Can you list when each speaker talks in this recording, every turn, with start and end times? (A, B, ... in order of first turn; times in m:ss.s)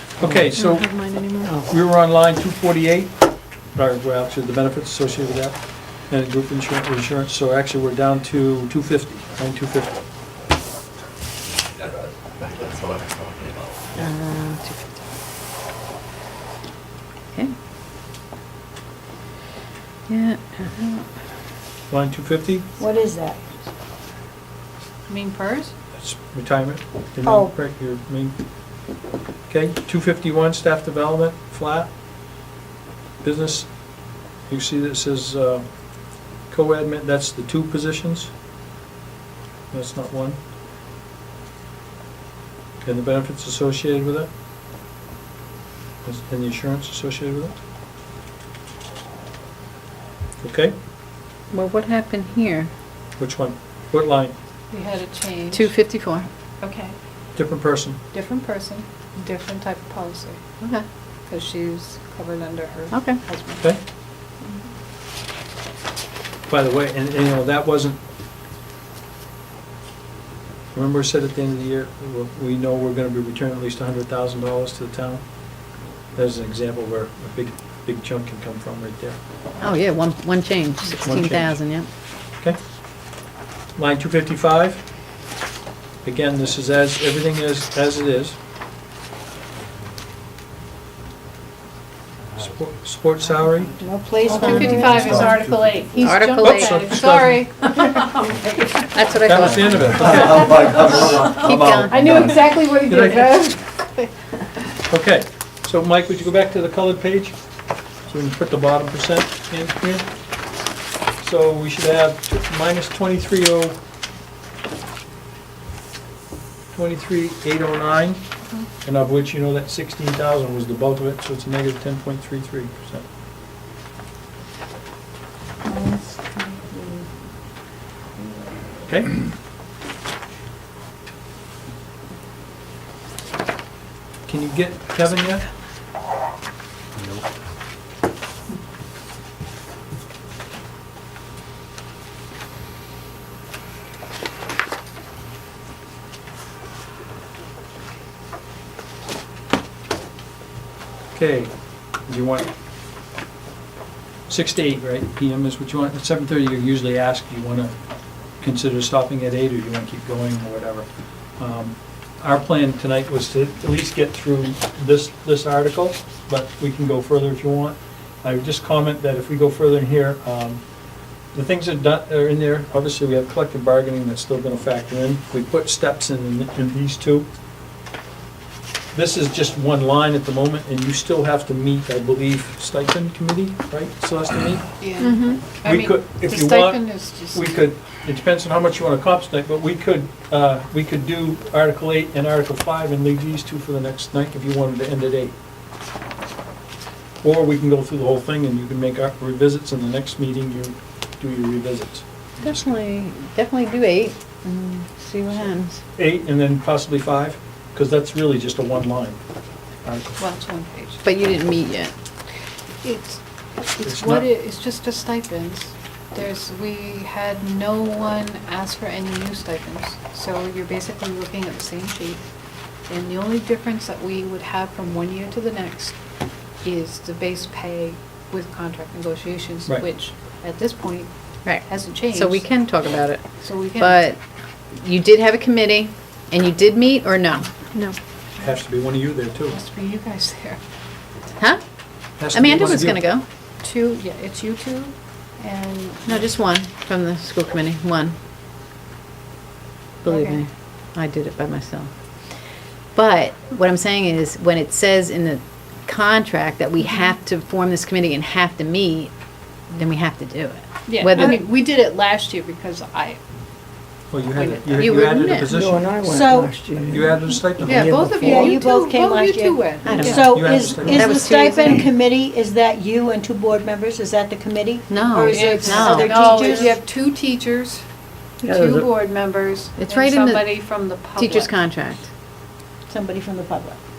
0:00.2-0:10.0 A
0:12.4-0:14.0 B
0:14.0-0:14.9 C
0:20.1-0:21.1 C
0:21.9-0:22.7 A
0:22.8-0:23.5 D
0:25.1-0:25.7 E
0:26.0-0:28.4 A
0:27.2-0:27.5 D
0:29.5-0:31.9 A
0:33.2-0:33.7 A
0:34.4-0:35.6 A
0:36.5-0:38.3 A
0:39.7-0:40.4 A
0:42.8-0:44.3 A
0:46.0-0:47.5 A
0:50.4-0:50.7 A
0:51.5-0:52.7 C
0:53.2-0:54.3 A
0:54.7-0:55.9 E
0:55.5-0:56.3 C
0:56.6-0:57.0 E
0:57.3-0:58.0 A
0:58.1-1:00.4 E
1:00.6-1:00.9 C
1:01.3-1:03.7 E
1:02.9-1:03.2 C
1:06.5-1:08.0 A
1:10.7-1:15.3 A
1:16.1-1:19.2 A
1:19.6-1:21.9 C
1:21.0-1:21.7 A
1:23.8-1:24.9 A
1:26.0-1:28.4 A
1:32.4-1:33.8 A
1:33.8-1:39.2 E
1:34.2-1:35.4 C
1:34.3-1:34.9 D
1:34.9-1:35.4 A
1:35.1-1:35.8 B
1:36.0-1:37.0 C
1:36.1-1:37.4 A
1:38.9-1:39.9 C
1:39.2-1:40.8 A
1:39.7-1:42.4 B
1:40.0-1:41.2 E
1:41.3-1:42.3 C
1:41.9-1:44.1 E
1:42.8-1:43.3 A
1:44.9-1:47.4 A
1:48.1-1:50.0 A
1:51.2-1:53.8 A
1:56.7-1:58.2 A
1:58.8-2:03.0 A
2:05.6-2:07.1 D
2:08.8-2:09.2 A
2:14.3-2:15.4 A
2:31.1-2:31.5 A
2:32.0-2:32.5 A
2:34.3-2:37.7 A
2:38.4-2:40.9 A
2:41.4-2:50.6 A
2:51.3-2:57.2 A
2:58.9-3:04.6 A
3:04.8-3:07.6 E
3:05.0-3:05.4 C
3:05.6-3:15.3 A
3:17.2-3:22.6 A
3:22.4-3:25.8 C
3:25.9-3:29.2 A
3:30.2-3:31.0 E
3:31.0-3:31.9 C
3:32.8-3:33.2 E
3:33.8-3:42.2 E
3:33.8-3:34.3 A
3:42.9-3:46.0 E
3:46.6-3:52.5 E
3:51.5-3:54.2 C
3:53.4-3:54.0 E
3:54.8-3:57.5 C
3:58.4-3:59.6 A
3:59.5-4:00.6 E
4:01.4-4:01.6 C
4:02.2-4:03.0 A
4:02.3-4:03.2 C
4:02.5-4:03.0 E
4:03.6-4:06.3 E
4:06.1-4:08.2 C
4:10.0-4:11.9 C
4:10.0-4:10.4 E
4:13.0-4:19.1 C
4:19.7-4:21.4 C
4:20.9-4:23.2 E
4:24.1-4:25.9 A
4:24.3-4:25.2 E
4:24.8-4:25.5 C
4:25.5-4:27.8 F
4:26.0-4:26.6 D
4:26.8-4:28.6 A
4:27.6-4:30.6 E
4:28.2-4:36.8 D
4:29.8-4:31.9 C
4:30.1-4:31.1 A
4:34.9-4:36.7 C
4:35.3-4:37.8 E
4:38.4-4:38.9 F
4:38.4-4:41.5 E
4:39.8-4:42.1 C
4:42.9-4:43.8 D